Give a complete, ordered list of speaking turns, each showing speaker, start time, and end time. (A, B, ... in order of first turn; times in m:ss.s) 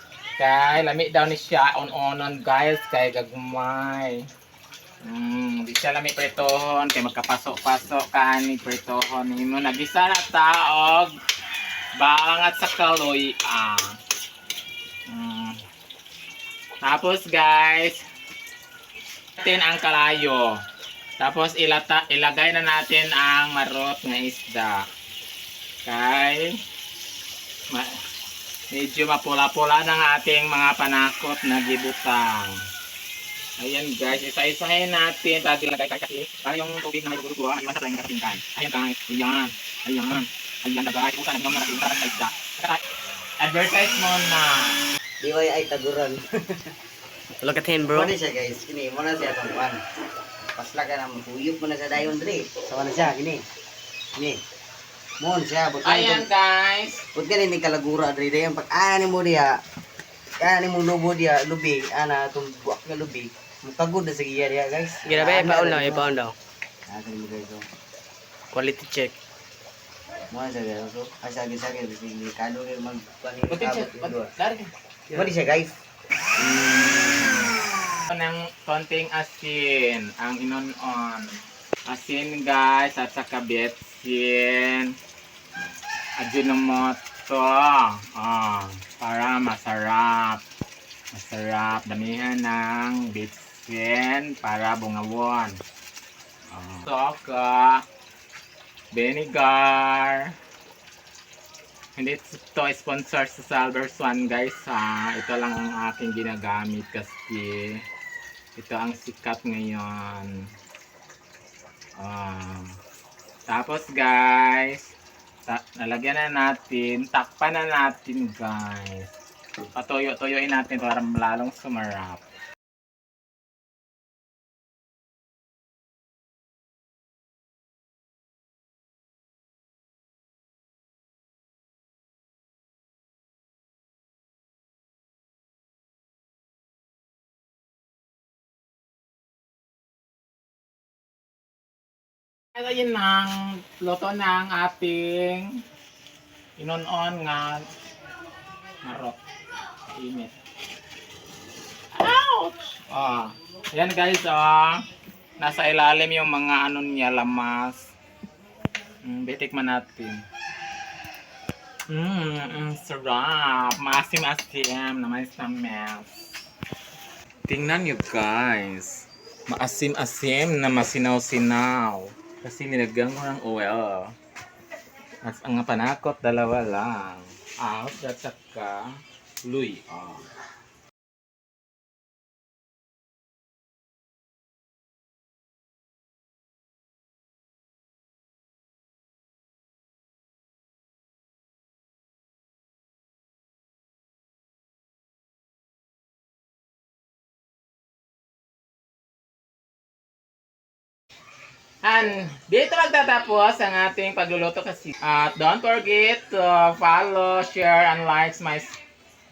0:00.4-0:04.2 A
0:05.0-0:11.1 A
0:12.0-0:14.0 A
0:15.1-0:15.6 A
0:16.8-0:18.0 A
0:19.4-0:20.6 A
0:21.2-0:24.8 A
0:25.8-0:26.5 A
0:28.7-0:32.6 A
0:33.6-0:42.8 A
0:43.4-0:44.8 A
0:45.2-0:46.6 B
0:47.4-0:48.1 C
0:47.9-0:49.8 B
0:50.6-0:53.4 B
0:55.2-0:56.3 B
0:55.8-0:57.0 A
0:57.1-0:59.5 B
1:00.4-1:06.1 B
1:05.0-1:06.3 C
1:06.9-1:07.6 B
1:08.5-1:09.1 C
1:10.3-1:14.3 B
1:13.5-1:14.7 A
1:15.1-1:15.8 B
1:18.1-1:21.3 A
1:21.8-1:24.9 A
1:26.2-1:30.4 A
1:31.1-1:35.6 A
1:36.5-1:37.8 A
1:38.9-1:40.3 A
1:42.0-1:47.8 A
1:48.6-1:50.3 A
1:52.0-1:52.7 A
1:53.5-1:54.9 A
1:55.4-1:59.1 A
1:59.7-2:02.2 A
2:22.5-2:25.6 A
2:26.6-2:27.6 A
2:28.8-2:29.2 A
2:29.9-2:30.3 A
2:32.0-2:34.8 A
2:35.4-2:37.9 A
2:39.0-2:40.2 A
2:41.9-2:46.1 A
2:47.5-2:54.1 A
2:55.2-3:00.2 A
3:21.8-3:28.8 A